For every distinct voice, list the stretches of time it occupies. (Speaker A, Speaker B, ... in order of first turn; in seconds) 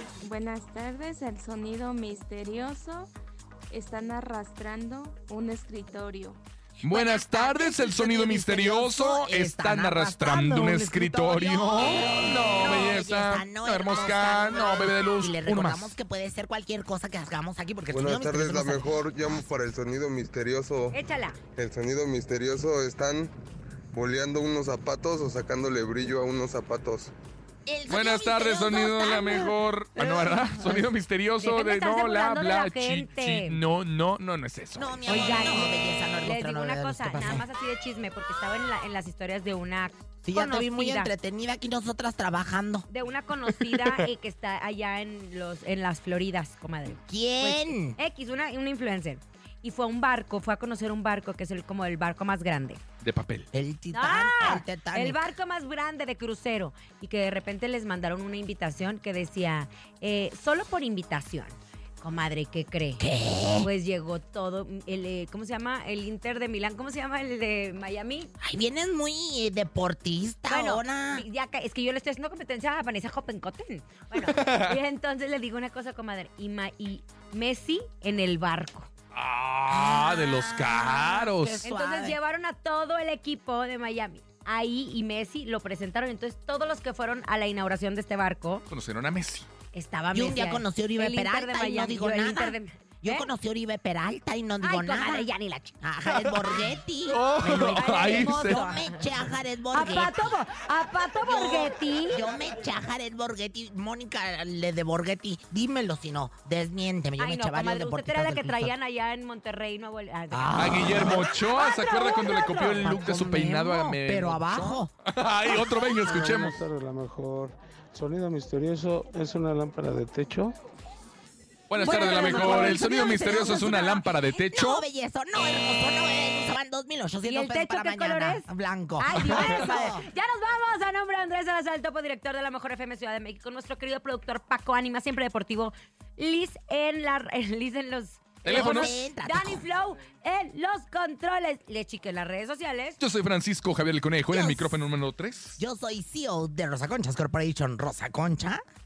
Speaker A: 0.2-3.1, 3.7-6.4
Speaker B: 6.8-15.9, 27.9-35.4, 53.0-53.5, 74.1-74.8, 79.1-81.6, 88.7-89.5, 96.0-98.7, 110.5-116.6, 121.7-124.8, 129.2-129.6, 138.4-138.9, 143.0-145.6
Speaker C: 6.8-19.1, 27.7-30.9, 34.8-37.4, 40.2-42.9, 47.1-48.0, 53.5-55.2, 63.0-63.7, 68.4-71.2, 79.7-82.2, 90.1-95.3, 95.8-100.3, 101.2-108.7, 110.3-111.3, 112.8-114.9, 121.8-130.1, 138.4-139.6, 144.3-144.8, 145.6-148.6
Speaker D: 17.9-21.0, 21.6-23.3, 23.9-27.1
Speaker E: 20.9-21.4, 31.4-33.6, 35.0-41.1, 42.9-52.8, 53.9-63.0, 63.6-68.3, 70.5-78.9, 81.6-88.6, 89.7-93.3, 94.6-95.8, 97.7-99.1, 99.7-102.2, 107.2-110.5, 111.5-112.9, 121.8-122.9, 127.2-128.5, 129.0-143.0
Speaker F: 116.0-120.5